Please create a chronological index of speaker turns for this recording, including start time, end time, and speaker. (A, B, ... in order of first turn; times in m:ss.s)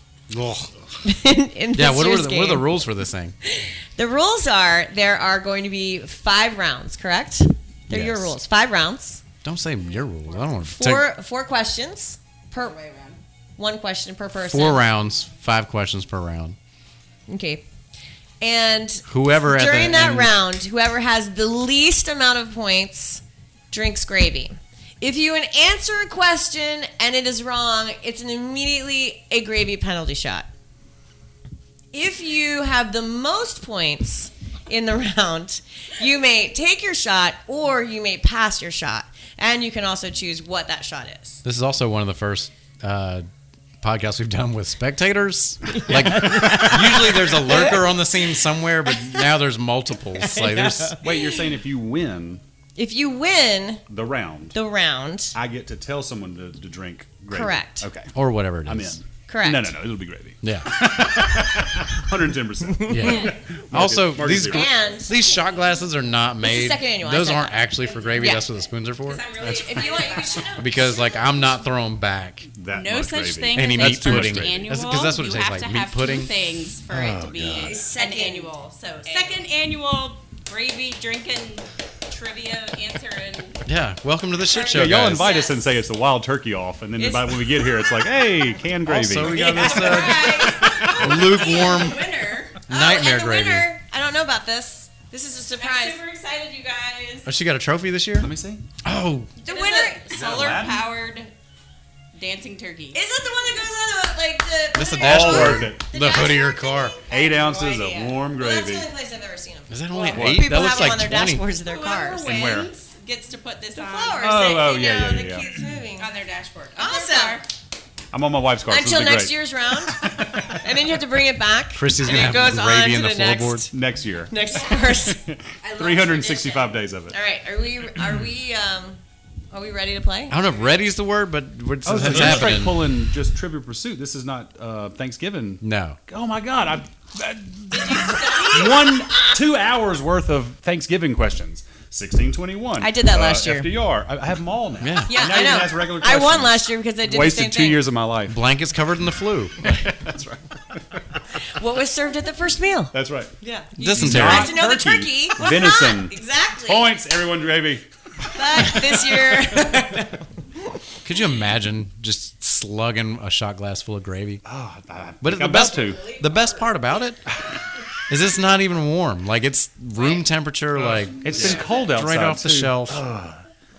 0:00.3-0:01.0 A
0:01.0-0:02.8 B
0:01.7-0:03.3 A
0:03.4-0:09.2 B
0:07.9-0:08.3 A
0:09.4-0:11.1 A
0:09.8-0:10.6 C
0:10.7-0:12.8 B
0:12.5-0:13.2 C
0:13.6-0:14.9 B
0:14.4-0:16.6 A
0:17.3-0:17.6 B
0:18.4-0:30.5 B
0:19.1-0:20.4 A
0:31.9-0:41.4 B
0:41.4-0:43.3 A
0:43.8-0:51.0 A
0:46.0-0:47.9 B
0:50.3-0:51.5 B
0:51.0-0:52.4 D
0:52.8-0:53.8 B
0:53.9-0:54.6 D
0:54.5-0:55.4 B
0:55.3-0:58.1 D
0:57.3-0:57.9 B
0:58.1-0:59.0 A
0:58.6-1:04.7 D
0:59.3-0:59.9 B
1:00.4-1:00.8 A
1:02.9-1:09.2 A
1:02.9-1:03.3 B
1:04.4-1:05.2 B
1:06.4-1:08.6 B
1:08.1-1:08.4 C
1:09.0-1:10.7 C
1:09.4-1:11.6 B
1:09.4-1:09.7 D
1:10.6-1:12.5 A
1:12.5-1:14.7 D
1:12.7-1:23.6 C
1:13.5-1:16.3 A
1:16.9-1:17.7 A
1:17.5-1:18.5 B
1:19.0-1:19.4 B
1:23.6-1:25.3 A
1:24.5-1:25.7 C
1:24.7-1:30.1 D
1:27.0-1:28.0 B
1:28.8-1:32.1 A
1:29.2-1:31.2 B
1:29.4-1:32.6 C
1:32.6-1:33.7 A
1:32.7-1:36.0 B
1:35.6-1:37.3 C
1:37.2-1:38.3 A
1:38.2-1:38.6 D
1:38.8-1:39.3 A
1:39.4-1:41.3 C
1:39.4-1:40.1 B
1:40.1-1:40.9 D
1:42.1-1:43.0 C
1:42.9-1:52.3 B
1:44.7-1:47.0 A
1:45.0-1:45.8 D
1:47.1-1:48.9 D
1:49.7-1:51.4 A
1:50.1-1:50.6 D
1:51.6-1:54.6 C
1:52.2-1:52.7 D
1:53.7-1:56.1 B
1:54.2-1:55.6 D
1:56.0-1:57.5 C
1:56.8-1:57.4 B
1:58.1-1:59.4 D
1:58.7-2:03.7 B
2:01.8-2:03.7 A
2:03.7-2:07.2 D
2:04.3-2:05.2 B
2:04.4-2:05.0 C
2:05.6-2:06.8 C
2:07.1-2:09.0 B
2:09.5-2:10.4 B
2:10.3-2:12.9 A
2:10.4-2:10.8 C
2:11.8-2:28.4 D
2:12.0-2:12.6 B
2:15.6-2:16.0 A
2:17.7-2:19.0 C
2:22.8-2:23.8 B
2:24.8-2:25.2 A
2:25.0-2:27.9 B
2:28.3-2:29.9 A
2:29.6-2:30.5 D
2:31.4-2:37.0 B
2:32.9-2:37.8 D
2:33.8-2:34.6 A
2:38.3-2:40.2 B
2:41.0-2:44.4 A
2:44.4-2:46.1 D
2:45.2-2:47.2 A
2:48.1-2:53.0 A
2:49.9-2:50.2 C
2:50.7-2:53.4 D
2:51.4-2:51.8 C